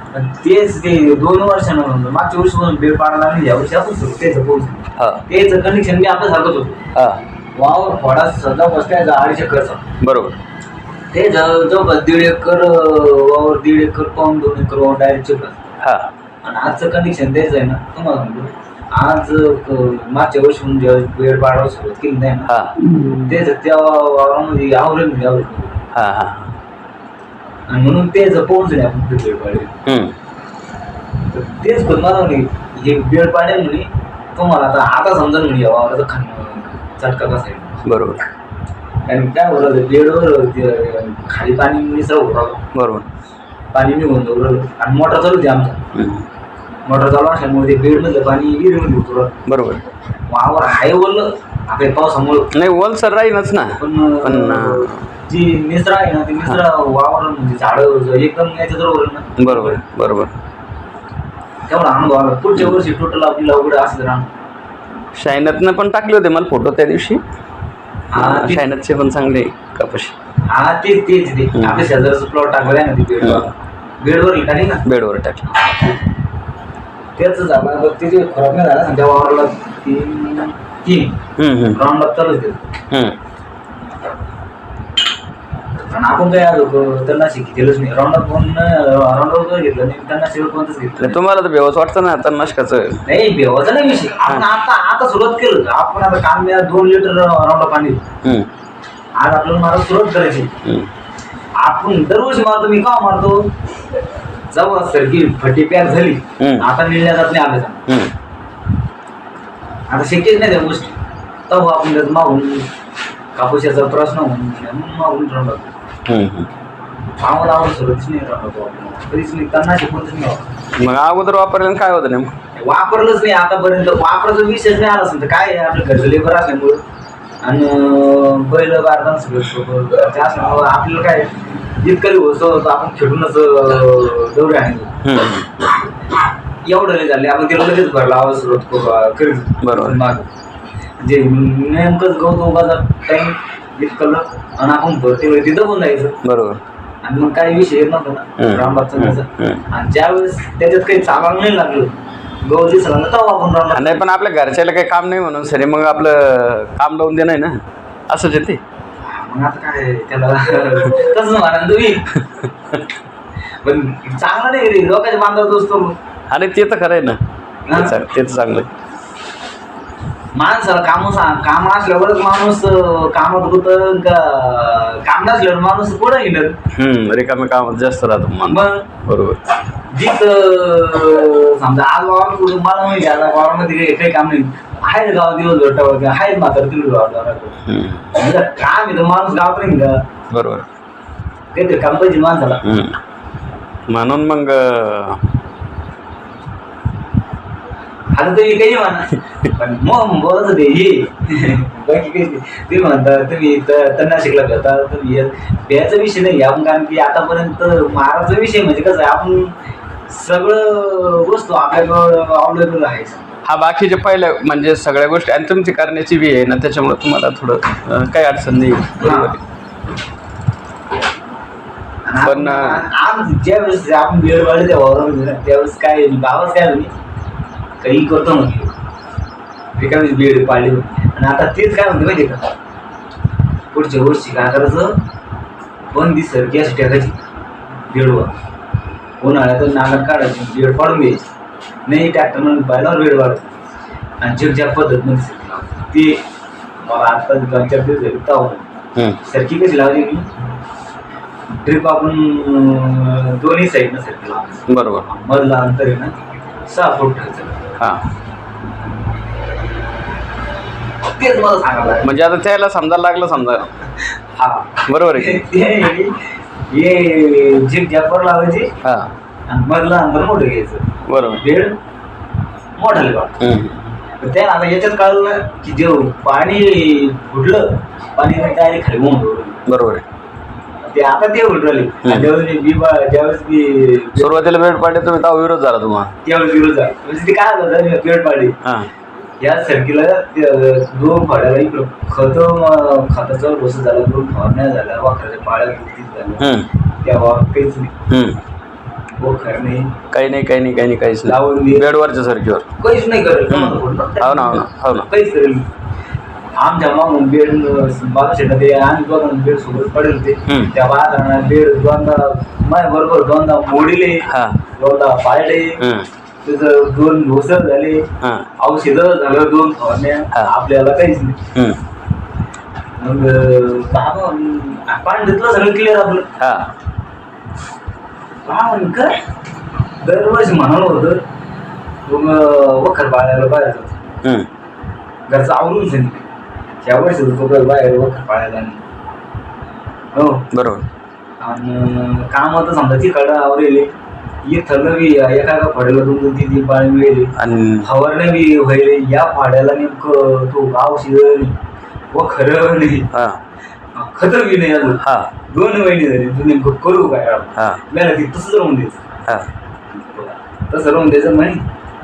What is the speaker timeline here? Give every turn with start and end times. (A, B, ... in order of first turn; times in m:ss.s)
0:00.1-0:06.8 A
0:05.0-0:05.2 B
0:07.0-0:07.2 B
0:07.6-0:09.8 A
0:10.0-0:10.4 B
0:11.1-0:15.7 A
0:15.8-0:16.1 B
0:16.4-0:22.5 A
0:22.5-0:22.8 B
0:23.1-0:25.8 A
0:25.9-0:26.6 B
0:27.7-0:29.7 A
0:29.9-0:30.1 B
0:31.3-0:37.8 A
0:37.8-0:38.2 B
0:39.1-0:42.6 A
0:42.7-0:43.1 B
0:43.7-0:45.8 A
0:45.9-0:46.3 B
0:46.9-0:49.4 A
0:49.5-0:49.9 B
0:50.3-0:52.5 A
0:52.5-0:55.1 B
0:53.8-0:59.8 A
0:59.4-1:00.3 B
1:01.7-1:04.3 A
1:02.6-1:02.8 B
1:05.2-1:07.2 B
1:08.1-1:08.6 A
1:08.2-1:10.2 B
1:10.5-1:14.8 A
1:11.5-1:11.9 B
1:13.2-1:13.5 B
1:14.8-1:15.5 B
1:15.5-1:16.0 A
1:17.2-1:21.2 A
1:21.4-1:21.8 B
1:21.7-1:22.7 A
1:22.9-1:23.2 B
1:25.9-1:31.2 A
1:31.0-1:33.0 B
1:33.1-1:38.0 A
1:38.2-1:38.5 B
1:39.2-1:40.5 A
1:41.6-1:43.5 A
1:44.5-1:47.9 A
1:46.4-1:46.7 B
1:49.9-1:51.0 A
1:51.5-1:52.7 A
1:53.4-1:55.7 A
1:56.1-1:56.5 B
1:57.2-2:00.5 A
2:00.8-2:02.3 B
2:02.6-2:06.8 A
2:07.4-2:15.0 A
2:15.0-2:15.7 B
2:16.6-2:20.3 A
2:19.6-2:20.0 B
2:21.0-2:26.2 A
2:26.2-2:26.6 B
2:27.0-2:34.0 A
2:28.4-2:29.6 B
2:33.7-2:38.6 B
2:39.0-2:42.2 A
2:42.4-2:42.8 B
2:43.6-2:46.0 A
2:46.3-2:47.2 B
2:47.7-2:48.0 A
2:47.7-2:48.7 B
2:50.3-2:56.6 A
2:56.7-2:59.4 B
2:58.5-2:58.9 A
2:59.9-3:10.0 A
3:07.7-3:08.1 B
3:10.3-3:10.7 B
3:11.5-3:12.6 A
3:12.6-3:13.0 B
3:13.9-3:15.2 B
3:18.1-3:29.6 A
3:30.1-3:33.3 A
3:33.4-3:39.4 B
3:39.0-3:39.3 A
3:42.0-3:46.9 A
3:42.2-3:42.8 B
3:47.8-3:48.8 A
3:49.8-3:52.5 A
3:53.7-3:55.0 A
3:55.9-3:57.2 A
3:57.9-3:58.3 A
3:59.2-4:01.3 A
4:01.9-4:03.6 A
4:04.2-4:06.2 A
4:06.8-4:08.7 A
4:09.2-4:10.3 A
4:11.6-4:16.2 A
4:14.7-4:15.1 B
4:16.7-4:17.6 A
4:17.8-4:18.1 B
4:21.1-4:22.1 A
4:22.0-4:23.7 B
4:24.4-4:26.1 A
4:24.9-4:25.4 B
4:26.7-4:28.7 A
4:28.8-4:29.1 B
4:29.5-4:31.8 A
4:31.1-4:31.4 B
4:32.8-4:33.5 A
4:33.4-4:33.9 B
4:34.2-4:39.6 A
4:39.7-4:40.0 B
4:40.9-4:44.5 A
4:42.0-4:42.3 B
4:44.2-4:46.2 B
4:46.2-4:48.6 A
4:48.6-4:48.9 B
4:49.4-4:56.5 A
4:56.4-4:56.7 B
4:57.0-4:57.9 A
4:58.1-4:58.4 B
4:59.2-5:00.0 A
5:00.1-5:02.7 B
5:01.3-5:01.9 A
5:02.8-5:05.7 A
5:03.5-5:05.1 B
5:06.6-5:14.3 A
5:10.5-5:10.7 B
5:14.3-5:14.6 B
5:14.8-5:15.8 A
5:15.8-5:16.1 B
5:16.4-5:21.4 A
5:18.2-5:18.5 B
5:21.5-5:21.8 B
5:23.0-5:26.3 A
5:26.4-5:26.7 B
5:28.4-5:29.2 A
5:30.0-5:31.2 A
5:32.1-5:34.1 A
5:35.3-5:36.3 A
5:36.8-5:38.8 A
5:40.1-5:40.5 A
5:40.5-5:40.9 B
5:41.4-5:43.9 A
5:44.4-5:51.6 A
5:47.4-5:47.9 B
5:52.1-5:53.1 A
5:53.1-5:53.4 B
5:54.0-5:59.0 A
5:55.0-5:55.3 B
5:57.6-5:57.8 B
5:59.9-6:01.7 A